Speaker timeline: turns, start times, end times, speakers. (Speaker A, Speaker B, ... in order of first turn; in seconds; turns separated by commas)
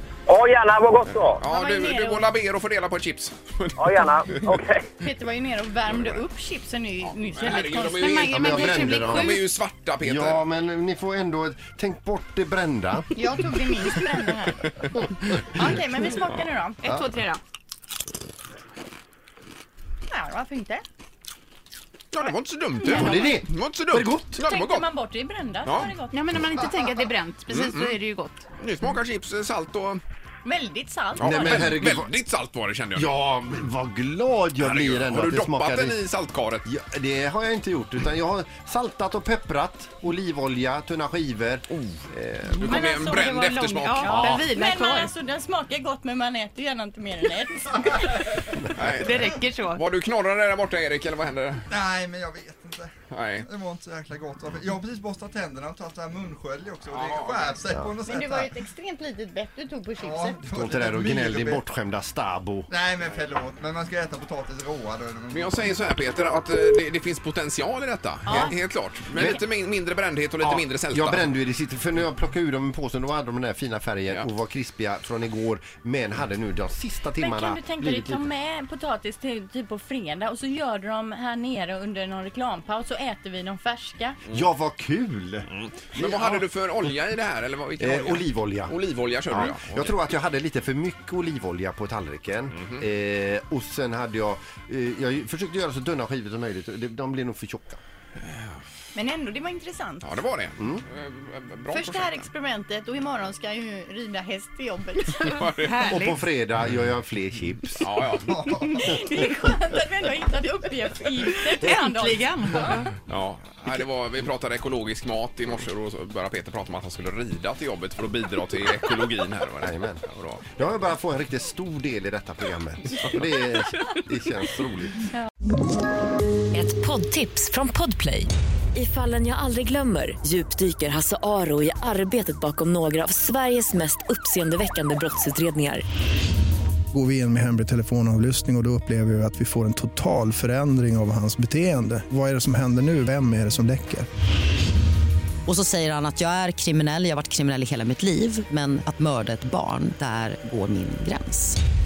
Speaker A: 0.3-1.4, Speaker B: 1.0-4.6, Speaker C: 1.4-2.3, Speaker A: 3.8-4.8, Speaker C: 5.0-8.7, Speaker B: 5.8-6.2, Speaker B: 7.0-10.4, Speaker D: 8.0-9.4, Speaker E: 8.2-9.4, Speaker E: 10.0-13.1, Speaker C: 13.1-16.8, Speaker E: 14.9-15.8, Speaker E: 16.8-17.1, Speaker D: 16.8-17.4, Speaker C: 20.1-20.8, Speaker B: 22.1-24.9, Speaker C: 22.8-23.4, Speaker E: 22.9-24.3, Speaker C: 24.4-26.2, Speaker B: 25.6-25.9, Speaker D: 26.1-28.4, Speaker F: 26.6-27.1, Speaker B: 27.5-28.0, Speaker B: 28.6-30.0, Speaker C: 30.4-31.8, Speaker B: 31.2-33.1, Speaker E: 31.2-32.2, Speaker E: 32.9-36.0, Speaker B: 34.6-36.6, Speaker E: 36.6-41.7, Speaker B: 41.7-44.3, Speaker C: 42.6-48.3, Speaker D: 43.6-45.1, Speaker E: 44.0-44.5, Speaker B: 48.7-51.7, Speaker D: 48.9-49.8, Speaker F: 51.7-58.5, Speaker B: 53.1-53.5, Speaker B: 56.9-57.6, Speaker C: 58.0-60.4, Speaker F: 60.0-61.6, Speaker E: 60.5-62.7, Speaker F: 62.7-65.8, Speaker B: 65.3-71.3, Speaker C: 68.2-68.5, Speaker E: 68.3-68.5, Speaker E: 69.1-69.4, Speaker E: 70.4-78.2, Speaker C: 77.2-84.2, Speaker E: 84.3-86.4, Speaker B: 85.5-90.0, Speaker E: 87.8-97.8, Speaker B: 92.5-92.8, Speaker B: 98.2-98.6, Speaker C: 98.9-100.1, Speaker B: 100.0-102.2, Speaker E: 100.6-100.8, Speaker C: 101.7-105.4, Speaker B: 105.1-105.9, Speaker D: 105.6-106.2, Speaker E: 105.8-107.9, Speaker B: 107.8-108.4, Speaker F: 108.2-109.0, Speaker C: 108.5-112.8, Speaker D: 111.5-112.9, Speaker B: 113.0-120.5, Speaker E: 119.6-120.0, Speaker E: 120.5-125.1, Speaker G: 126.5-135.8, Speaker H: 136.9-144.1, Speaker I: 145.5-151.6